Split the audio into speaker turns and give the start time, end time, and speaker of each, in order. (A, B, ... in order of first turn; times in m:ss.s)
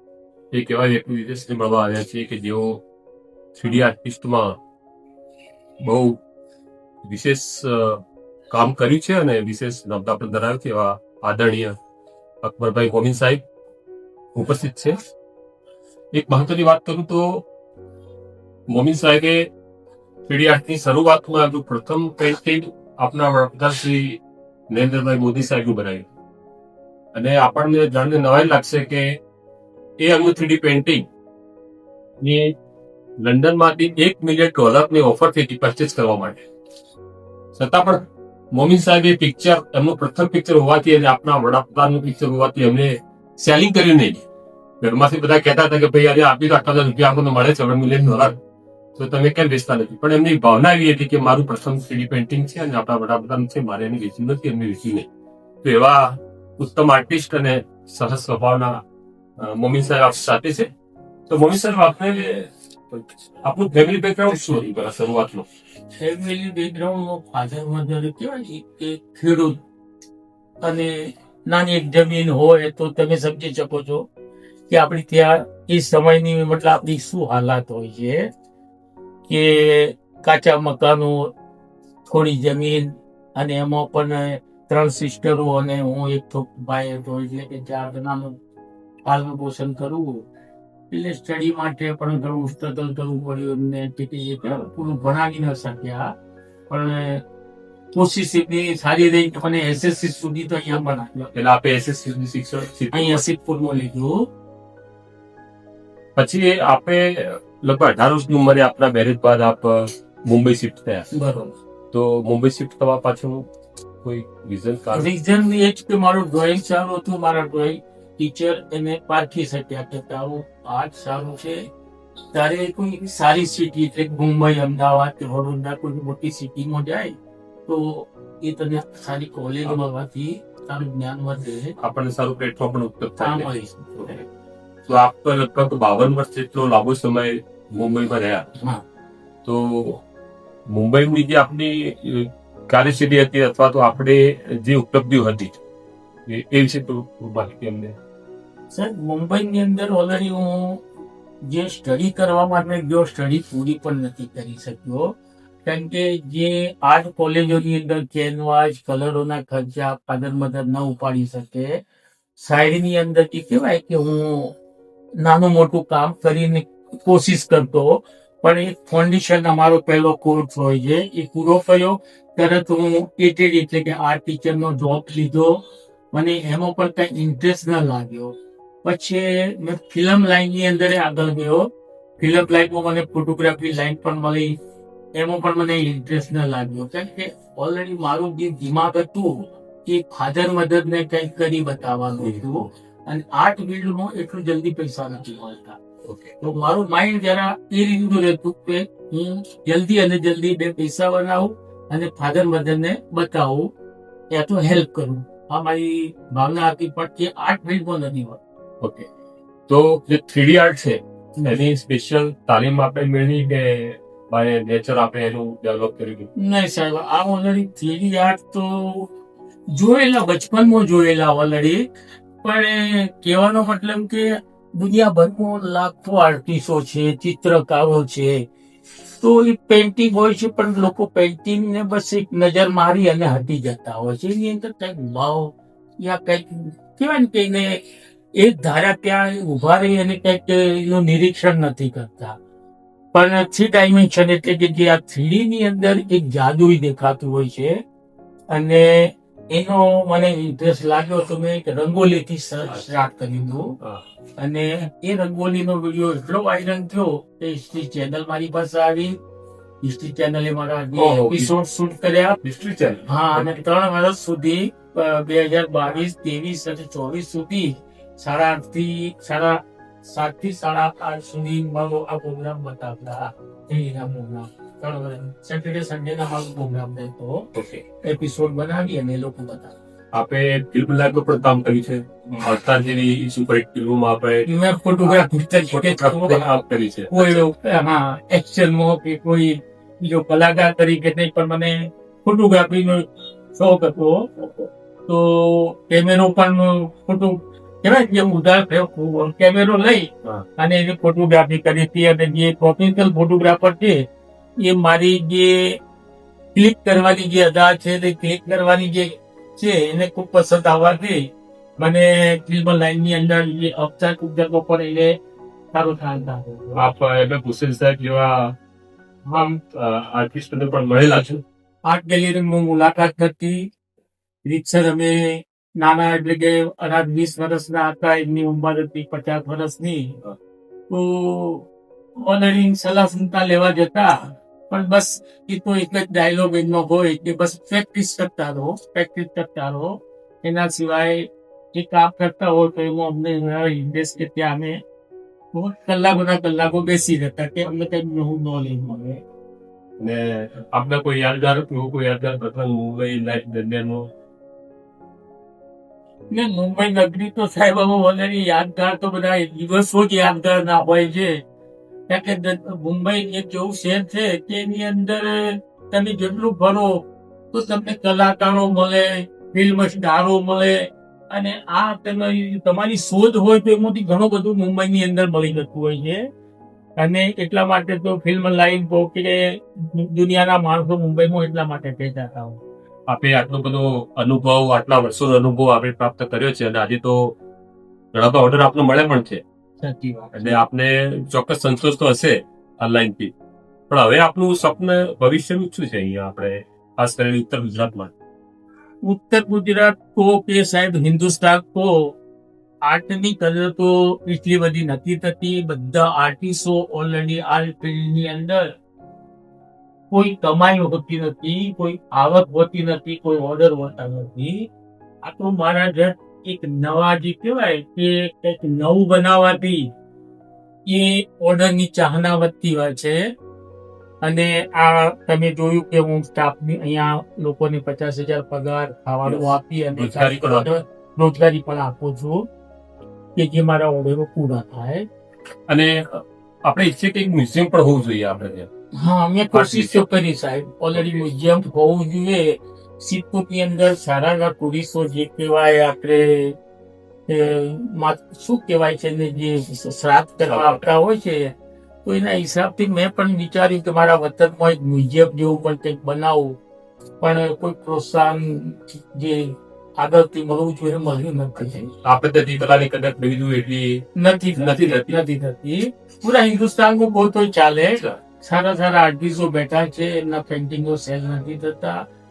0:00.5-0:02.8 A
0:03.6-0:04.6 A
0:05.8-0:06.2 A
0:07.0-0:11.7 A
0:12.4-0:13.4 A
0:14.3-0:15.0 A
0:16.1-0:17.4 A
0:18.7-0:19.4 A
0:20.3-0:24.2 A
0:24.7-0:26.1 A
0:27.1-0:29.2 A
0:30.0-0:31.0 A
0:33.2-0:36.4 A
0:37.5-0:44.2 A
0:44.8-0:48.4 A
0:49.0-0:55.1 A
0:55.6-0:58.8 A
0:59.4-1:00.7 A
1:01.3-1:05.4 A
1:06.0-1:09.6 B
1:10.6-1:14.0 B
1:14.7-1:18.2 B
1:19.3-1:21.3 B
1:22.1-1:28.4 B
1:29.0-1:30.2 B
1:30.9-1:36.1 B
1:36.7-1:37.2 B
1:37.9-1:41.3 B
1:41.3-1:43.2 A
1:42.9-1:44.2 B
1:46.2-1:51.1 A
1:51.1-1:51.5 B
1:51.9-1:53.4 A
1:54.0-1:55.1 A
1:54.9-2:01.6 B
2:02.3-2:11.7 B
2:11.8-2:14.2 A
2:13.2-2:13.8 B
2:14.9-2:18.5 A
2:19.4-2:20.0 A
2:20.7-2:25.6 A
2:26.3-2:28.0 A
2:28.7-2:30.8 B
2:31.5-2:35.1 B
2:35.6-2:41.7 B
2:42.4-2:44.5 B
2:45.2-2:55.6 B
2:56.1-3:01.7 B
3:02.2-3:04.6 B
3:05.2-3:09.3 B
3:09.8-3:15.8 B
3:16.0-3:16.4 A
3:16.4-3:23.7 B
3:24.3-3:28.4 B
3:28.8-3:29.1 A
3:29.7-3:36.3 A
3:36.4-3:39.1 B
3:39.7-3:41.8 B
3:42.4-3:48.4 B
3:49.2-3:57.8 B
3:58.4-4:02.4 B
4:03.1-4:07.8 B
4:08.5-4:13.7 B
4:14.4-4:19.2 B
4:19.8-4:22.4 B
4:21.0-4:21.5 A
4:22.4-4:23.5 A
4:23.1-4:37.5 B
4:37.5-4:37.8 A
4:38.0-4:39.7 B
4:40.1-4:44.5 A
4:44.4-4:46.5 B
4:45.7-4:47.4 A
4:47.1-5:04.0 B
5:04.6-5:05.8 B
5:06.5-5:11.2 B
5:11.8-5:15.1 B
5:15.7-5:16.8 B
5:16.8-5:18.5 A
5:19.3-5:19.5 B
5:19.3-5:21.4 A
5:21.8-5:23.6 B
5:24.4-5:30.2 B
5:30.9-5:44.8 B
5:45.5-5:49.2 B
5:50.0-5:54.1 A
5:56.3-6:01.4 B
6:02.1-6:10.8 B
6:11.3-6:16.2 B
6:17.0-6:22.6 B
6:23.1-6:27.4 A
6:28.1-6:29.4 A
6:29.8-6:30.6 B
6:30.3-6:33.3 A
6:33.9-6:38.1 A
6:39.1-6:42.2 B
6:42.9-6:48.7 B
6:50.1-6:54.7 B
6:55.2-6:59.9 B
7:00.8-7:03.2 B
7:04.2-7:12.5 B
7:09.2-7:10.7 A
7:13.4-7:15.0 B
7:15.7-7:18.7 A
7:19.0-7:26.6 B
7:19.5-7:20.0 A
7:21.0-7:21.3 A
7:27.3-7:36.6 B
7:30.5-7:30.9 A
7:37.2-7:41.9 B
7:42.0-7:44.0 A
7:44.2-7:52.0 B
7:44.6-7:45.2 A